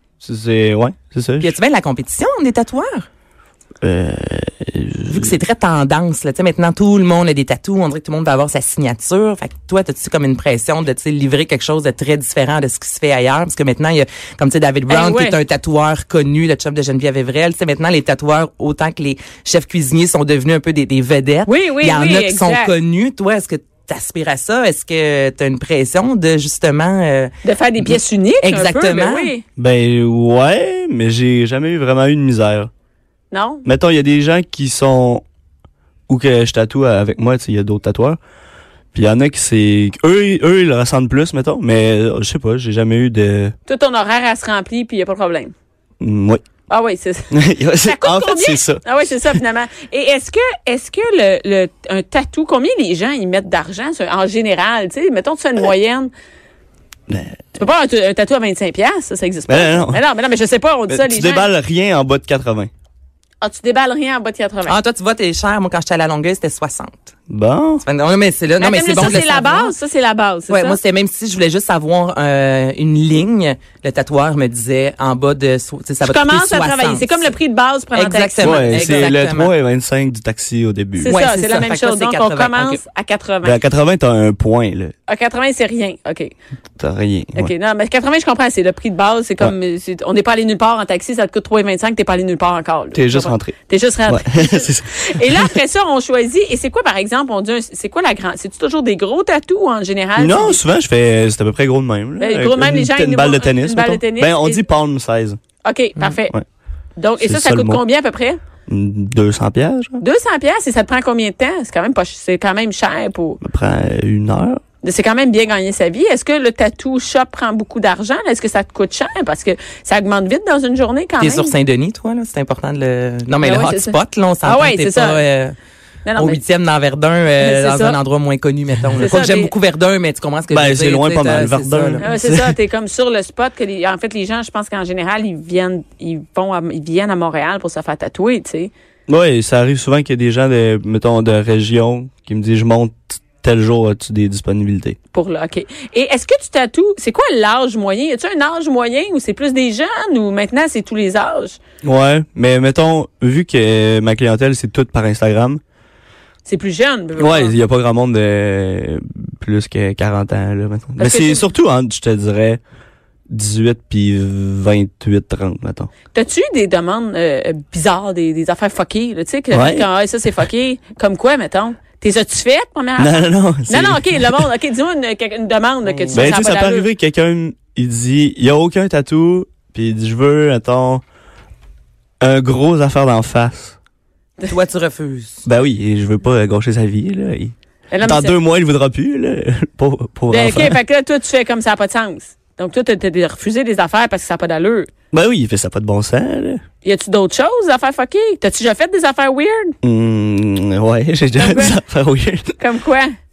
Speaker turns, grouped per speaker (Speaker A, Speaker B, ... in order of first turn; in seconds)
Speaker A: 0.2-1.5, 3.8-5.3, 29.6-32.7, 33.6-35.2, 36.1-38.2, 38.9-43.5, 46.0-46.4, 47.3-49.4, 57.1-57.4, 59.5-60.0, 60.9-62.7, 67.3-67.8, 78.4-81.2, 83.4-84.9, 86.8-87.5, 92.9-93.5, 94.1-95.5, 100.2-105.4, 107.2-107.8, 108.7-110.0, 113.4-114.6, 129.0-129.3, 130.5-132.5, 139.1-145.0, 151.8-155.6, 157.2-162.6, 163.3-165.9, 169.5-169.9, 173.0-174.5, 176.1-181.0, 182.2-183.8, 185.4-190.8, 195.1-196.6, 199.8-202.6
Speaker B: 1.4-3.0, 5.1-29.3, 64.6-67.1, 67.8-69.7, 70.5-77.3, 77.9-79.5, 81.1-82.8, 121.2-125.5, 126.2-132.0, 175.8-176.3, 184.4-185.4
Speaker C: 14.9-15.3, 21.4-22.7, 27.4-29.4, 33.3-33.6, 43.7-45.5, 46.7-56.1, 57.5-61.5, 63.4-64.8, 68.6-70.8, 76.0-79.1, 81.0-83.6, 85.1-86.3, 87.3-100.6, 102.2-104.7, 105.6-106.3, 107.0-108.4, 110.0-113.4, 114.8-121.5, 123.4-125.2, 126.0-126.4, 127.4-128.0, 128.9-129.5, 132.0-138.7, 145.1-151.6, 156.4-157.5, 161.0-161.5, 166.1-176.9, 187.9-188.4, 190.3-194.9, 196.8-199.7, 201.3-201.8, 202.6-203.1